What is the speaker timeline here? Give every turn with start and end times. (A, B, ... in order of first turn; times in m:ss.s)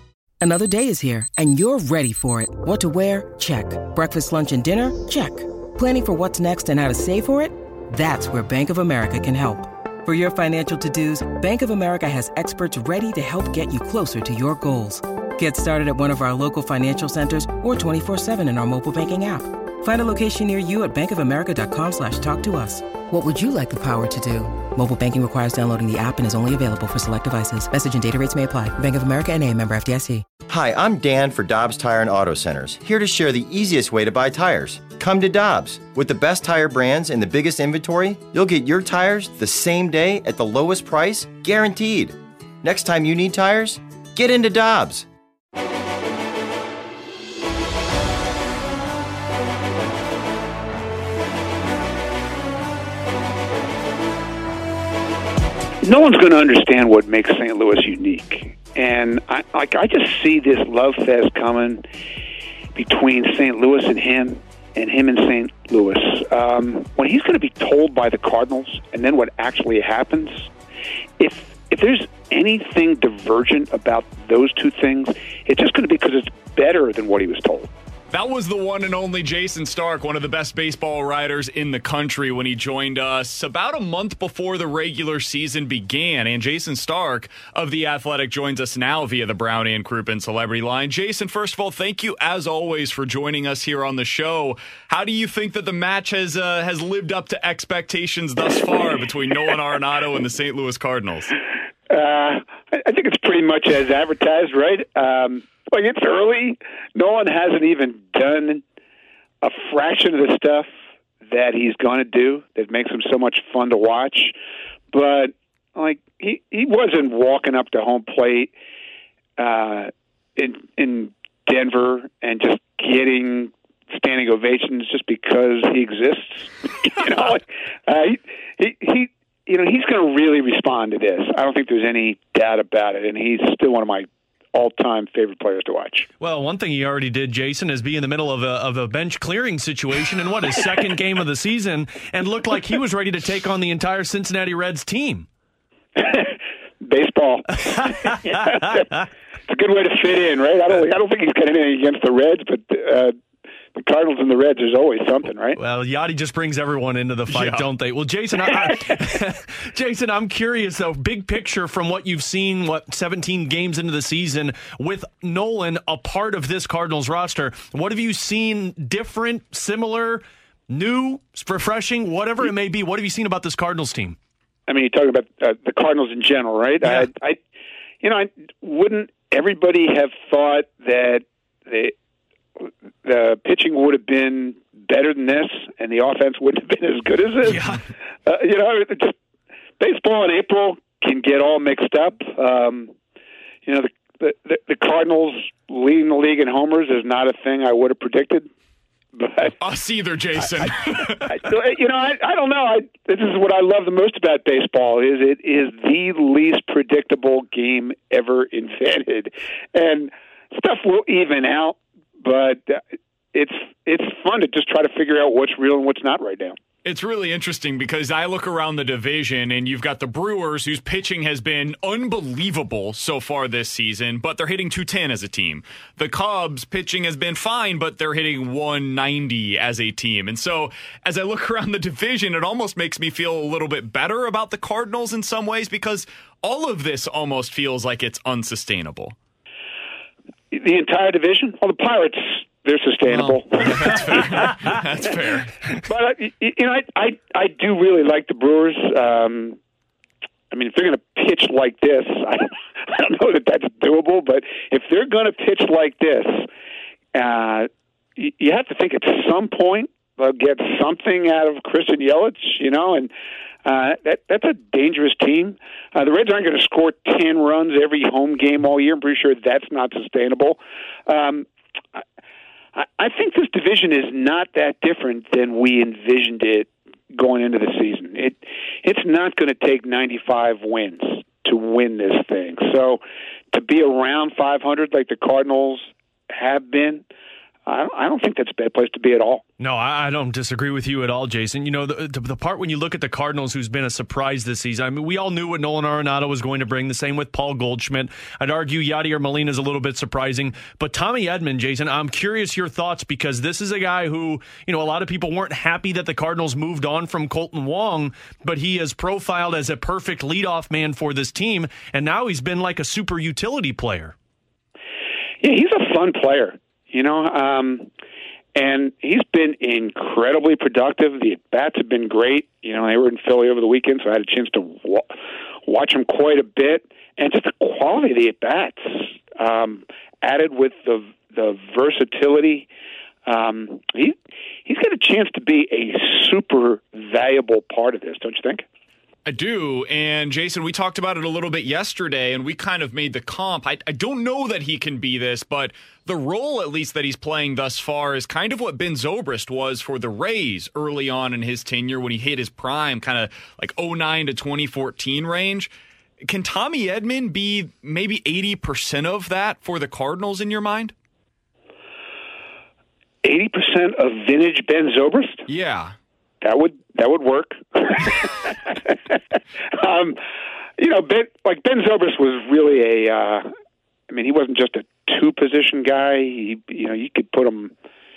0:00.4-0:30.3 A
0:30.5-0:45.1 B
0:55.8-1:01.8 C
1:02.8-1:10.5 C
1:11.2-1:17.7 C
1:18.1-1:41.4 D
1:41.9-1:48.6 C
1:49.4-1:50.7 C
1:51.3-1:54.4 C
1:54.9-1:58.5 C
1:59.4-2:16.1 C
2:16.2-2:25.3 E
2:26.0-2:33.1 C
2:33.7-2:35.6 C
2:35.6-2:54.2 E
2:37.3-2:37.7 D
2:54.7-2:57.4 C
2:58.0-3:01.9 C
3:02.6-3:07.7 C
3:07.5-3:07.8 E
3:08.3-3:09.2 C
3:09.8-3:12.9 C
3:13.6-3:18.5 C
3:19.2-3:19.5 C
3:19.6-3:21.3 D
3:20.7-3:32.8 C
3:33.3-3:36.6 C
3:36.8-3:59.2 D
4:00.5-4:04.5 C
4:03.1-4:05.6 D
4:05.8-4:09.6 C
4:10.5-4:16.5 C
4:17.1-4:23.1 C
4:23.6-4:32.0 C
4:32.8-4:47.1 C
4:47.7-4:49.4 C
4:49.6-5:14.1 E
5:15.4-5:17.9 C
5:18.6-5:25.1 C
5:25.6-5:32.7 C
5:33.3-5:38.6 C
5:39.3-5:55.7 D
5:56.3-6:00.9 D
6:03.2-6:05.5 C
6:05.5-6:05.9 D
6:06.4-6:09.2 C
6:09.7-6:10.2 C
6:10.8-6:13.5 C
6:14.1-6:17.7 C